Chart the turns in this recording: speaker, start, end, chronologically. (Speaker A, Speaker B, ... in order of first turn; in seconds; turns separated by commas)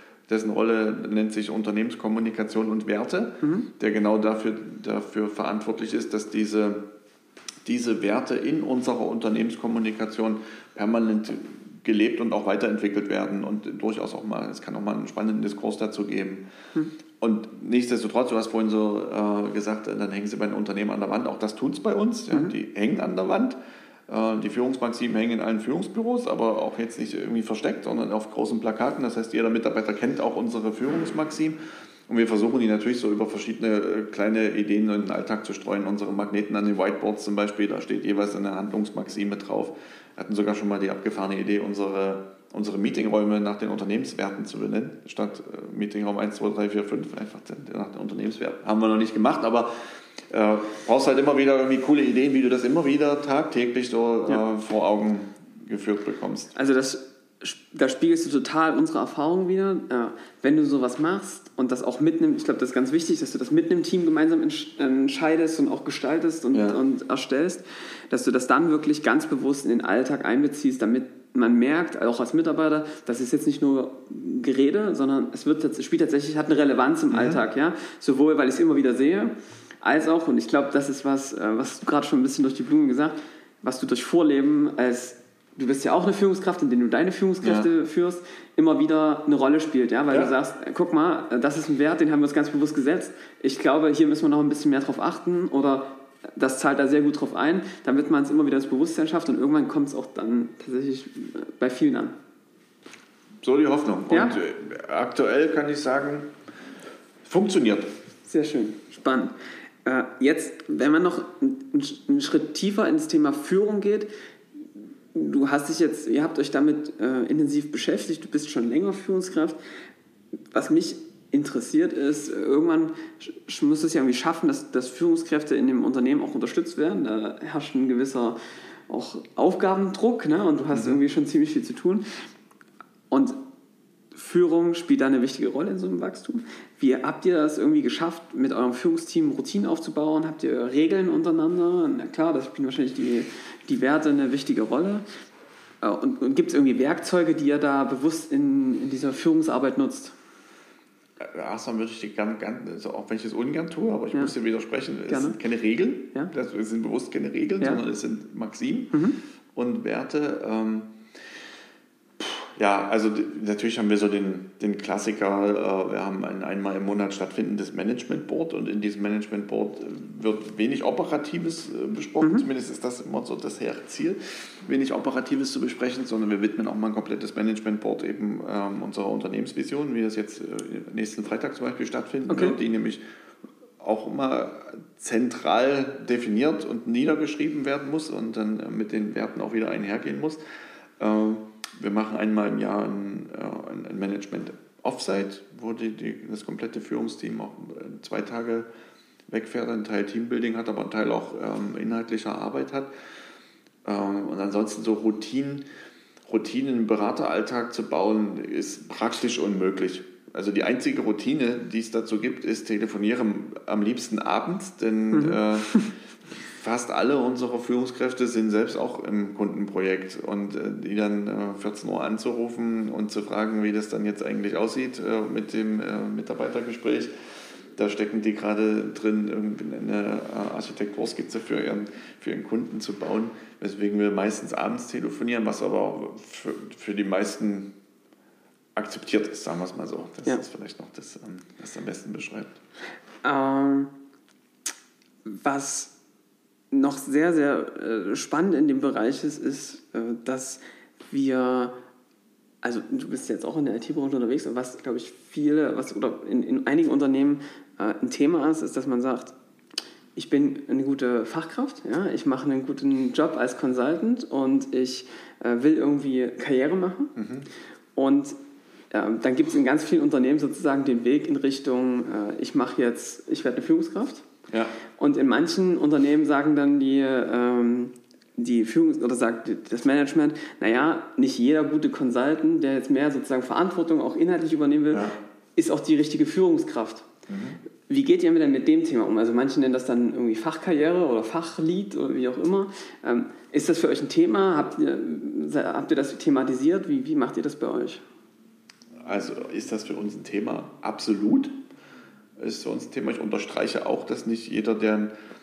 Speaker A: 0.3-6.9, Speaker B: 3.4-3.7, Speaker A: 7.7-16.4, Speaker A: 17.2-23.6, Speaker A: 24.1-56.5, Speaker B: 56.5-102.2, Speaker A: 66.5-66.8, Speaker A: 77.1-77.4, Speaker A: 87.4-87.7, Speaker A: 103.4-106.3, Speaker B: 104.1-104.4, Speaker A: 107.2-107.9, Speaker B: 108.2-109.3, Speaker B: 109.8-114.1, Speaker B: 115.1-119.6, Speaker B: 120.5-128.4, Speaker B: 128.9-132.1, Speaker B: 133.1-133.4, Speaker B: 134.1-145.0, Speaker B: 145.8-150.1, Speaker A: 151.2-159.0, Speaker B: 155.1-155.4, Speaker B: 158.9-159.2, Speaker A: 159.5-161.0, Speaker A: 162.2-183.0, Speaker B: 172.2-172.5, Speaker B: 182.3-182.6, Speaker A: 183.8-190.4, Speaker A: 191.0-198.7, Speaker A: 199.3-202.9, Speaker A: 203.8-205.7, Speaker A: 206.3-215.8, Speaker B: 215.1-215.9, Speaker A: 216.5-227.1, Speaker A: 227.8-237.7, Speaker A: 238.8-242.6, Speaker B: 243.2-243.9, Speaker B: 245.3-245.9, Speaker B: 246.7-251.7, Speaker B: 252.6-259.3, Speaker B: 260.2-267.1, Speaker A: 267.2-267.5, Speaker B: 268.0-268.4, Speaker B: 268.9-274.2, Speaker A: 274.5-274.8, Speaker B: 275.0-285.0, Speaker A: 284.9-285.2, Speaker B: 285.6-287.1, Speaker A: 287.3-287.6, Speaker B: 287.9-298.0, Speaker A: 299.0-301.6, Speaker A: 302.4-305.1